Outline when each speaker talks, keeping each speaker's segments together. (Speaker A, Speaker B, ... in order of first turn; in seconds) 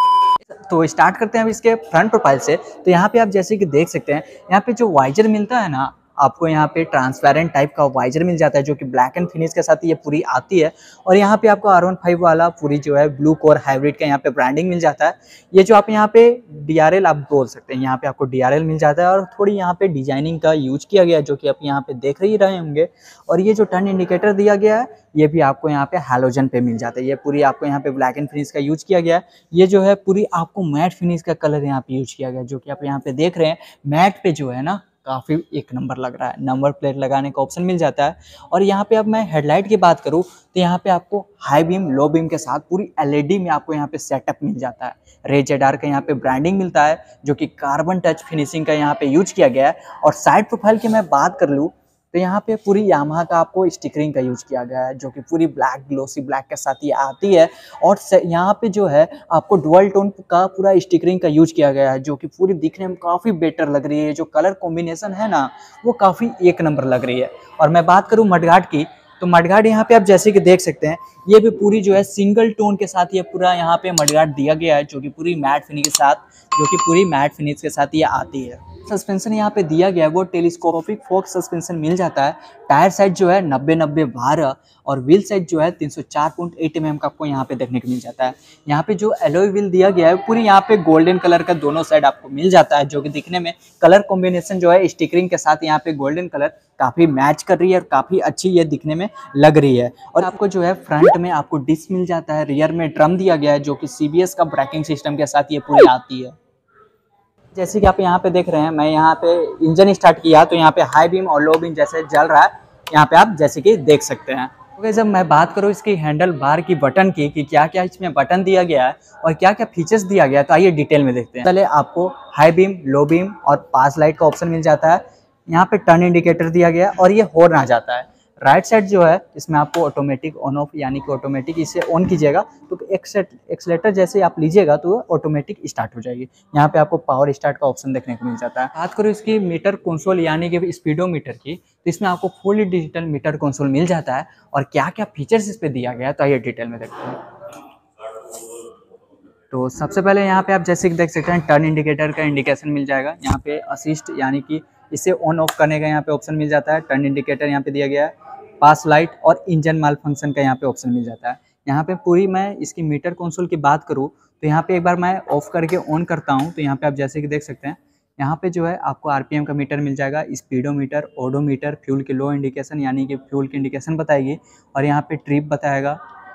Speaker A: 0.5-106.4, 107.5-147.2, 149.5-176.0